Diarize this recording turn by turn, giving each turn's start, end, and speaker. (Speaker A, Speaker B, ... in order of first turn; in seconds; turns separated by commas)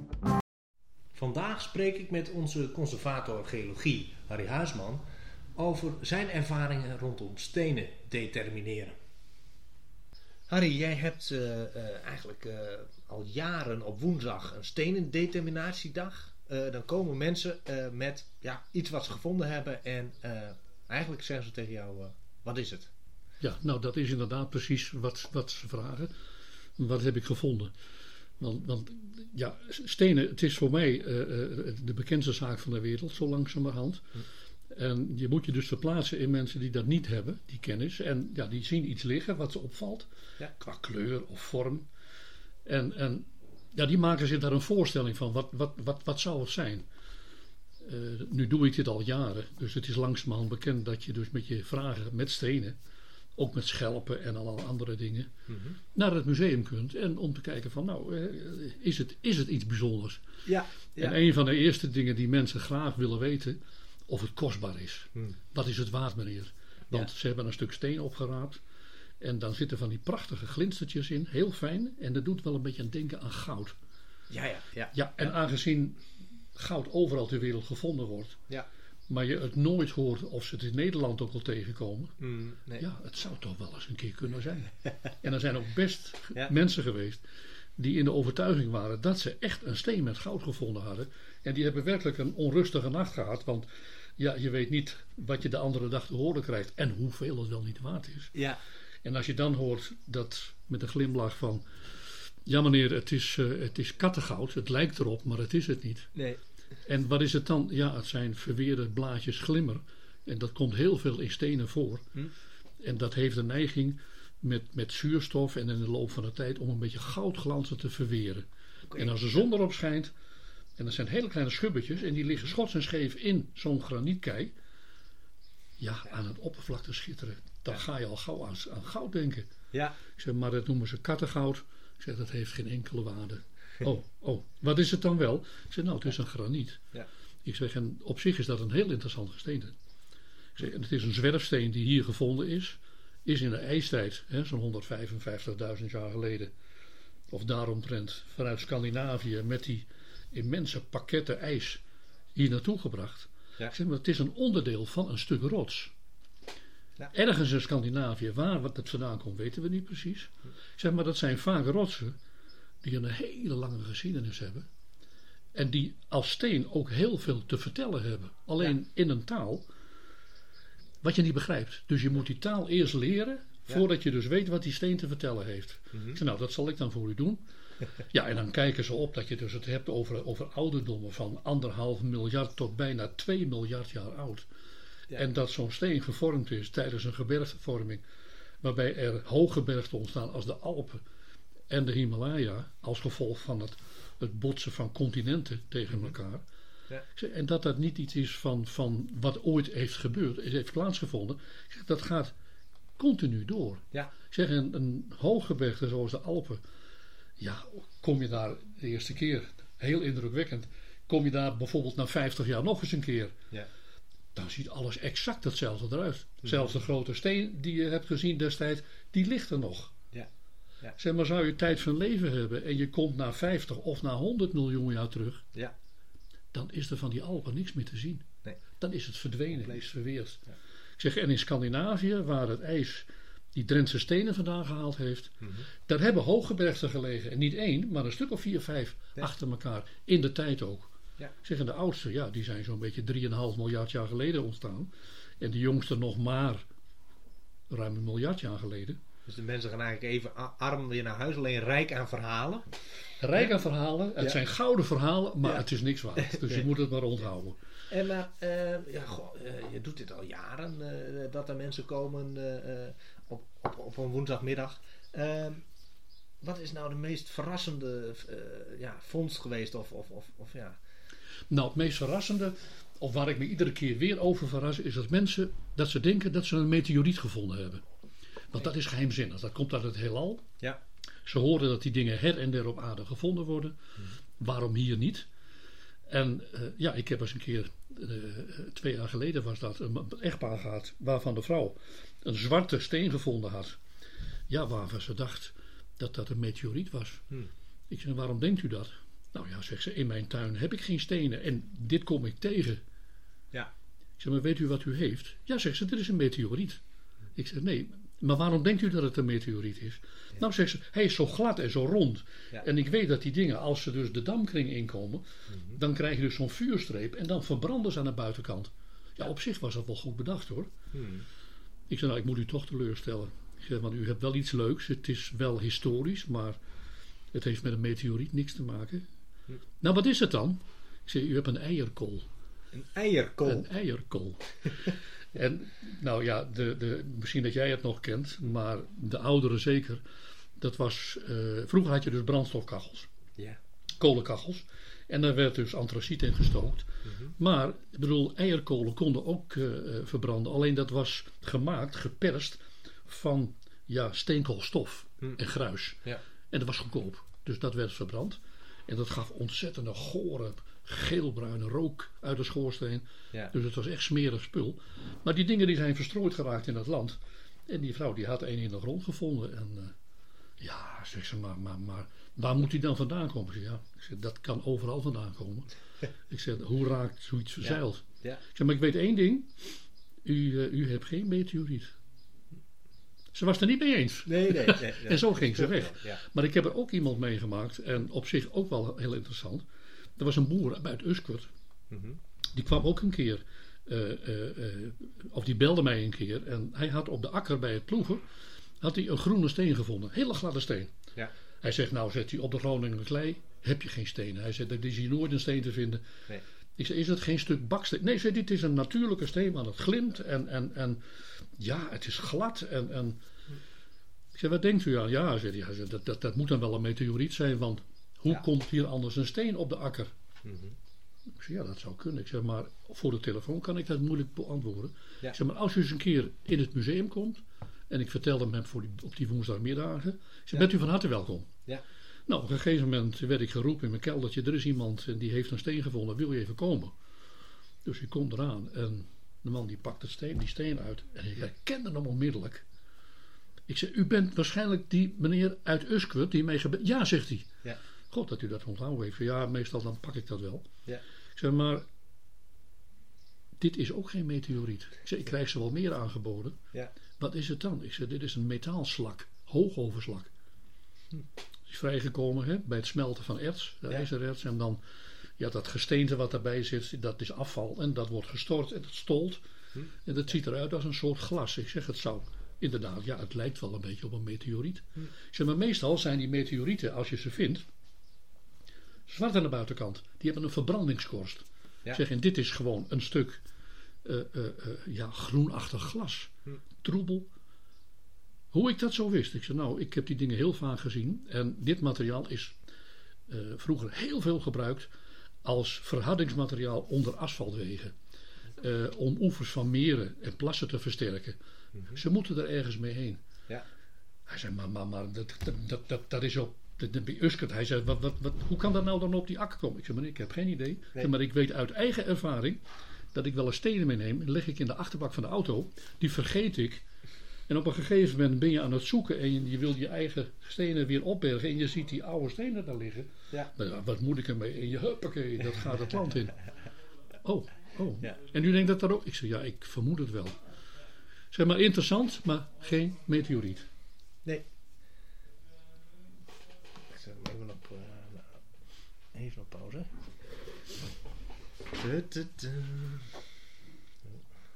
Speaker A: 1.1-5.0, Speaker A: 5.6-9.0, Speaker A: 10.5-22.9, Speaker B: 23.4-26.1, Speaker B: 26.8-27.7, Speaker B: 28.4-41.9, Speaker B: 42.7-46.9, Speaker B: 47.8-52.8, Speaker B: 53.4-55.3, Speaker A: 55.5-55.8, Speaker B: 56.0-60.2, Speaker A: 60.5-61.2, Speaker B: 61.0-68.6, Speaker B: 69.2-73.7, Speaker A: 74.3-75.3, Speaker B: 74.9-76.0, Speaker B: 76.5-78.4, Speaker B: 79.1-82.2, Speaker A: 82.2-82.8, Speaker B: 82.8-87.2, Speaker B: 87.8-93.7, Speaker B: 94.2-98.3, Speaker A: 98.3-98.6, Speaker B: 99.0-101.6, Speaker B: 102.5-106.1, Speaker A: 106.2-106.4, Speaker B: 106.9-112.1, Speaker B: 112.8-120.1, Speaker A: 118.9-119.2, Speaker B: 120.8-124.5, Speaker B: 125.8-129.5, Speaker A: 129.7-130.0, Speaker B: 130.2-136.8, Speaker B: 137.4-139.8, Speaker B: 140.6-146.5, Speaker B: 147.3-151.8, Speaker B: 152.3-155.9, Speaker B: 157.1-162.2, Speaker B: 162.8-164.7, Speaker B: 165.6-169.7, Speaker B: 171.0-177.4, Speaker B: 178.0-184.5, Speaker B: 185.1-188.0, Speaker B: 188.6-191.0, Speaker B: 191.7-196.4, Speaker B: 197.2-202.3, Speaker B: 203.0-206.6, Speaker B: 207.4-213.4, Speaker B: 214.3-220.0, Speaker A: 216.4-216.7, Speaker B: 221.0-225.4, Speaker B: 226.5-228.2, Speaker B: 228.8-230.5, Speaker A: 229.5-229.9, Speaker B: 231.0-240.9, Speaker A: 235.4-235.7, Speaker B: 241.4-246.7, Speaker B: 247.7-249.0, Speaker A: 249.3-252.8, Speaker B: 253.2-257.6, Speaker A: 256.2-256.7, Speaker A: 257.9-265.6, Speaker A: 266.4-270.8, Speaker B: 271.5-277.8, Speaker B: 278.5-280.4, Speaker B: 281.2-283.8, Speaker B: 284.4-285.3, Speaker B: 286.1-293.8, Speaker B: 294.5-297.3, Speaker B: 297.9-302.8, Speaker B: 304.2-306.8, Speaker B: 307.4-320.7, Speaker A: 315.5-315.8, Speaker A: 320.9-321.3, Speaker B: 321.9-326.6, Speaker B: 327.3-329.1, Speaker B: 329.8-332.3, Speaker A: 332.7-333.7, Speaker B: 333.4-340.0, Speaker B: 340.6-343.1, Speaker B: 344.0-369.9, Speaker A: 347.1-347.3, Speaker B: 370.6-375.7, Speaker B: 376.3-379.7, Speaker A: 377.6-378.4, Speaker B: 380.2-381.9, Speaker B: 383.3-389.6, Speaker A: 384.3-386.2, Speaker B: 390.2-391.5, Speaker A: 391.9-392.2, Speaker B: 392.5-398.2, Speaker B: 398.8-400.9, Speaker B: 401.6-406.1, Speaker B: 406.8-411.0, Speaker B: 411.6-413.2, Speaker B: 414.3-420.1, Speaker A: 420.4-420.8, Speaker B: 421.4-431.5, Speaker B: 432.3-436.9, Speaker B: 437.8-442.6, Speaker B: 443.7-447.5, Speaker B: 448.1-450.7, Speaker B: 451.4-451.8, Speaker B: 453.6-456.6, Speaker B: 457.2-460.3, Speaker B: 461.7-464.8, Speaker B: 465.4-469.4, Speaker B: 470.1-477.6, Speaker B: 479.1-483.4, Speaker B: 484.0-487.3, Speaker B: 488.5-492.6, Speaker B: 493.3-494.9, Speaker B: 495.4-497.9, Speaker B: 498.6-501.4, Speaker B: 501.9-503.2, Speaker B: 504.3-512.6, Speaker B: 513.1-516.8, Speaker B: 517.5-526.4, Speaker B: 527.2-530.4, Speaker B: 531.3-533.7, Speaker A: 536.9-538.4, Speaker A: 539.1-540.0, Speaker A: 541.7-543.2